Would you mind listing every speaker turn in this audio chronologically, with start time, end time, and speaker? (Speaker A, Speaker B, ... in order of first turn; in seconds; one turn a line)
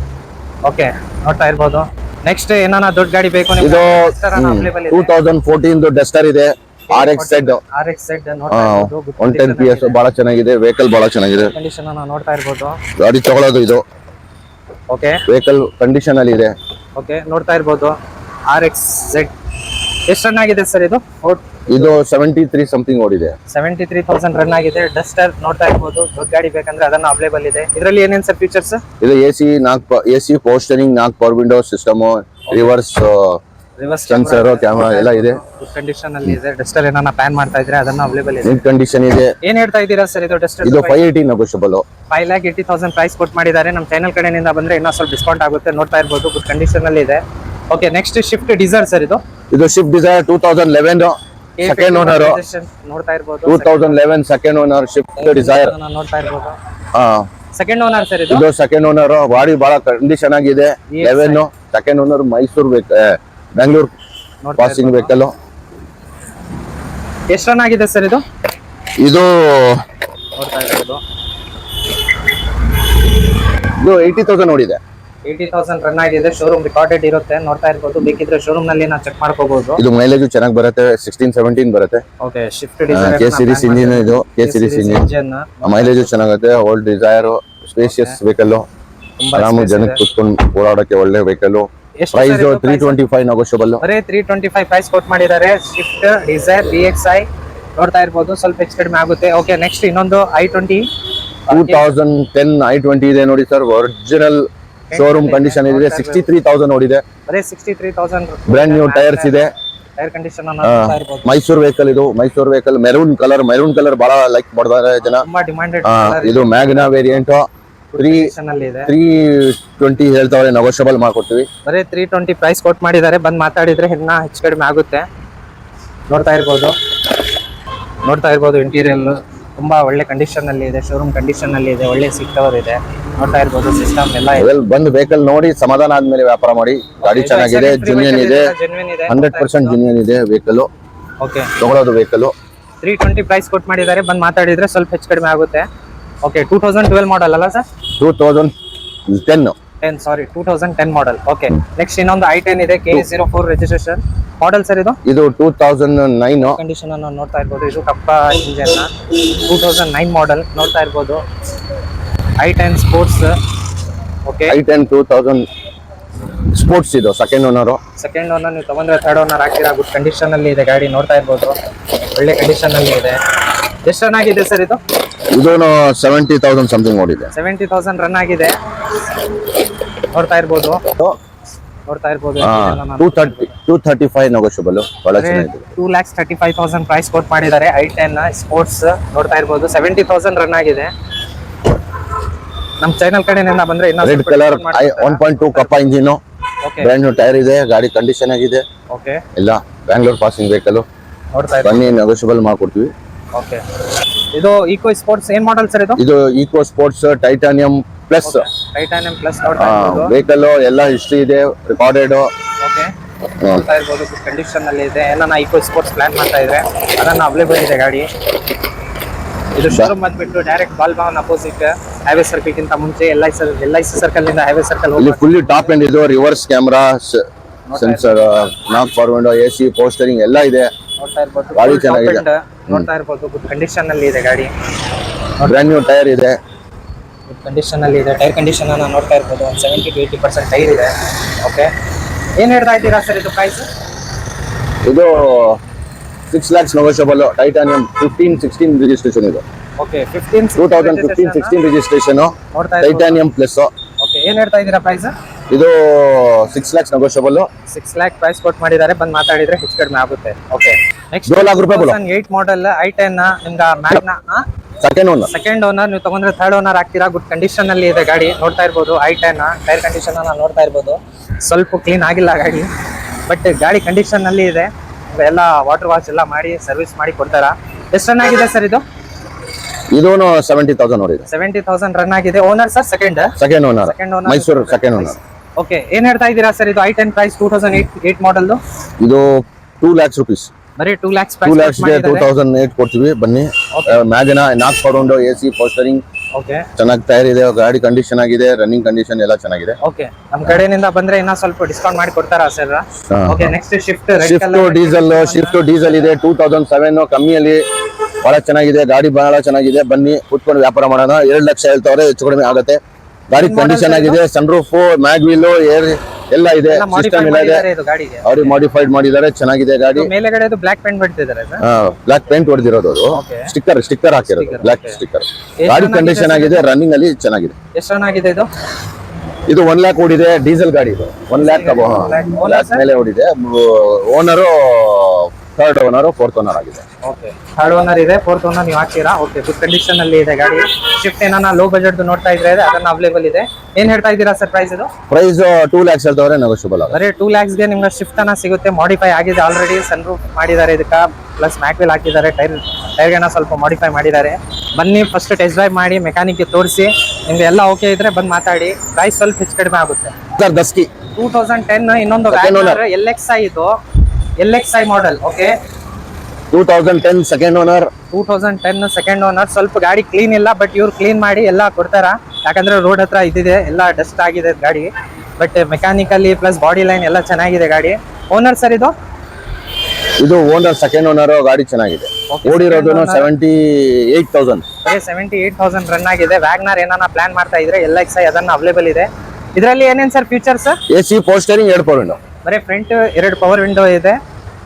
Speaker A: 0.7-5.1
Speaker B: 3.6-7.6
Speaker A: 6.9-10.0
Speaker B: 8.5-11.5
Speaker A: 11.5-12.8
Speaker B: 13.0-13.8
Speaker A: 14.9-15.2
Speaker B: 15.3-16.6
Speaker A: 16.9-17.9
Speaker A: 18.5-22.0
Speaker B: 21.7-23.4
Speaker A: 23.5-28.8
Speaker B: 29.0-33.4
Speaker A: 32.5-32.8
Speaker A: 33.8-38.6
Speaker B: 34.1-35.4
Speaker B: 38.4-39.4
Speaker A: 39.4-41.0
Speaker B: 40.6-41.9
Speaker A: 42.1-49.2
Speaker B: 49.5-52.4
Speaker A: 51.6-54.0
Speaker B: 53.5-55.8
Speaker A: 55.2-56.6
Speaker B: 56.9-57.3
Speaker A: 57.5-58.5
Speaker B: 58.3-63.9
Speaker A: 60.9-61.5
Speaker A: 64.4-65.2
Speaker B: 64.6-65.3
Speaker A: 67.3-68.2
Speaker B: 69.0-69.8
Speaker A: 70.4-71.0
Speaker B: 73.6-74.8
Speaker A: 75.2-79.8
Speaker B: 79.8-82.0
Speaker A: 82.2-86.1
Speaker B: 82.9-85.1
Speaker B: 85.6-88.7
Speaker A: 87.8-88.2
Speaker A: 89.2-90.0
Speaker B: 89.3-93.8
Speaker A: 92.0-93.0
Speaker A: 93.8-100.9
Speaker A: 101.5-101.9
Speaker B: 101.5-107.0
Speaker A: 104.9-106.3
Speaker A: 107.3-111.3
Speaker B: 108.5-109.5
Speaker B: 110.6-115.3
Speaker A: 115.0-117.2
Speaker B: 115.8-117.5
Speaker A: 117.9-118.9
Speaker B: 118.0-118.3
Speaker B: 118.9-121.5
Speaker A: 121.7-125.1
Speaker A: 126.1-126.7
Speaker A: 128.0-134.5
Speaker B: 134.3-138.5
Speaker A: 137.0-139.8
Speaker B: 139.1-140.7
Speaker A: 141.2-141.5
Speaker B: 141.6-142.3
Speaker A: 142.8-145.7
Speaker A: 146.2-147.6
Speaker B: 148.0-148.5
Speaker B: 149.1-149.6
Speaker A: 149.8-155.0
Speaker B: 155.1-156.6
Speaker A: 156.4-161.2
Speaker A: 162.4-163.3
Speaker A: 164.3-164.6
Speaker B: 164.5-165.5
Speaker B: 166.5-167.8
Speaker A: 168.0-171.6
Speaker A: 172.2-173.2
Speaker A: 173.8-174.8
Speaker B: 175.3-177.3
Speaker A: 177.3-178.6
Speaker A: 180.1-180.9
Speaker A: 181.9-183.5
Speaker B: 182.4-185.7
Speaker A: 185.1-190.9
Speaker A: 192.8-195.8
Speaker B: 194.0-196.2
Speaker A: 196.6-196.9
Speaker B: 196.8-198.7
Speaker A: 198.9-199.2
Speaker B: 199.4-200.9
Speaker A: 201.3-202.0
Speaker B: 201.6-202.9
Speaker A: 203.3-203.6
Speaker A: 204.3-206.0
Speaker B: 206.0-208.5
Speaker A: 208.2-210.2
Speaker B: 209.6-212.3
Speaker A: 212.6-218.1
Speaker B: 213.4-213.7
Speaker A: 219.5-225.8
Speaker B: 225.0-230.7
Speaker A: 227.7-228.3
Speaker A: 231.0-234.5
Speaker B: 231.6-232.9
Speaker A: 235.4-235.7
Speaker B: 235.4-236.4
Speaker A: 237.3-241.7
Speaker A: 242.4-243.7
Speaker B: 244.8-245.6
Speaker B: 246.3-249.4
Speaker A: 249.8-251.6
Speaker B: 250.6-253.7
Speaker A: 252.5-253.2
Speaker A: 254.0-255.1
Speaker B: 255.5-257.5
Speaker A: 257.7-264.4
Speaker B: 261.3-262.0
Speaker B: 264.8-265.3
Speaker A: 265.3-272.7
Speaker A: 273.3-278.8
Speaker B: 279.9-281.3
Speaker A: 281.3-288.6
Speaker B: 283.4-285.2
Speaker B: 289.0-290.5
Speaker A: 290.8-292.3
Speaker B: 291.4-296.0
Speaker A: 293.7-294.0
Speaker A: 296.4-296.7
Speaker B: 296.8-299.8
Speaker A: 299.8-305.6
Speaker B: 303.1-303.6
Speaker B: 304.2-307.6
Speaker B: 308.2-317.7
Speaker A: 313.3-314.2
Speaker A: 316.7-318.6
Speaker B: 318.2-320.1
Speaker A: 319.9-321.6
Speaker B: 321.6-327.6
Speaker A: 323.1-323.5
Speaker A: 324.2-325.0
Speaker A: 325.6-326.6
Speaker A: 327.8-328.5
Speaker B: 329.5-336.8
Speaker A: 331.4-332.9
Speaker A: 337.0-344.9
Speaker B: 345.1-347.0
Speaker A: 346.9-360.1
Speaker B: 360.4-360.9
Speaker A: 361.1-363.8
Speaker B: 362.3-362.8
Speaker A: 364.4-365.5
Speaker B: 366.5-367.9
Speaker A: 368.1-378.9
Speaker B: 380.2-384.6
Speaker A: 382.3-383.3
Speaker A: 384.9-390.8
Speaker B: 390.9-392.2
Speaker A: 392.4-394.2